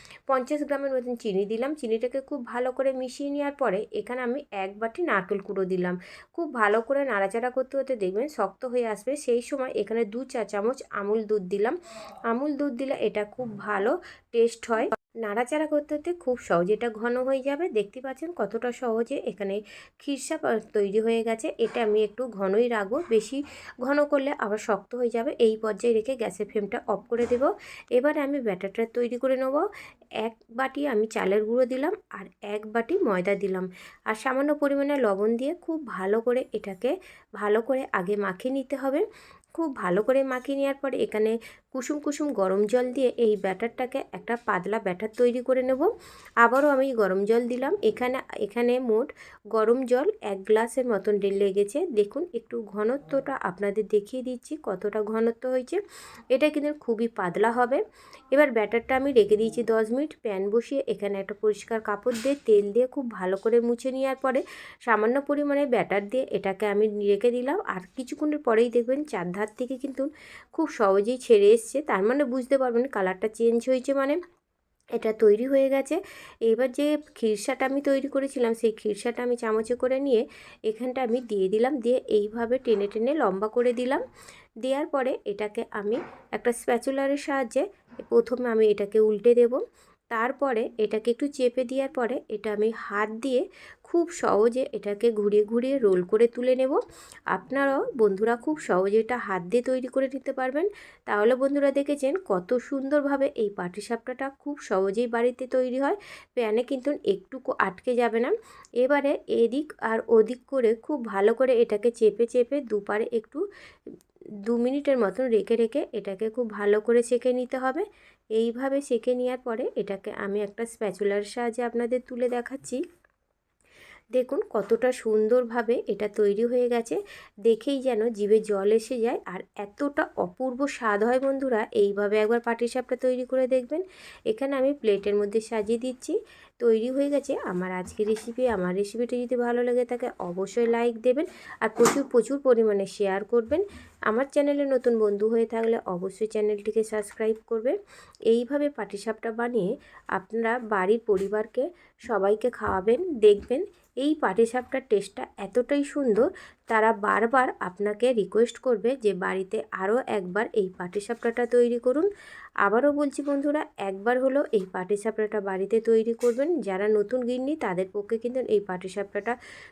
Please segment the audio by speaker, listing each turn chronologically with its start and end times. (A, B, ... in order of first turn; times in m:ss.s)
0:00.3-0:11.8 A
0:12.3-0:29.6 A
0:30.2-0:39.0 A
0:39.6-0:45.9 A
0:46.4-0:55.8 A
0:56.3-0:57.8 A
0:58.3-1:14.2 A
1:15.0-1:24.0 A
1:24.6-1:29.6 A
1:30.1-1:36.8 A
1:37.3-1:53.4 A
1:54.5-1:57.8 A
1:58.4-2:02.8 A
2:04.2-2:27.8 A
2:28.3-2:42.1 A
2:42.6-2:49.4 A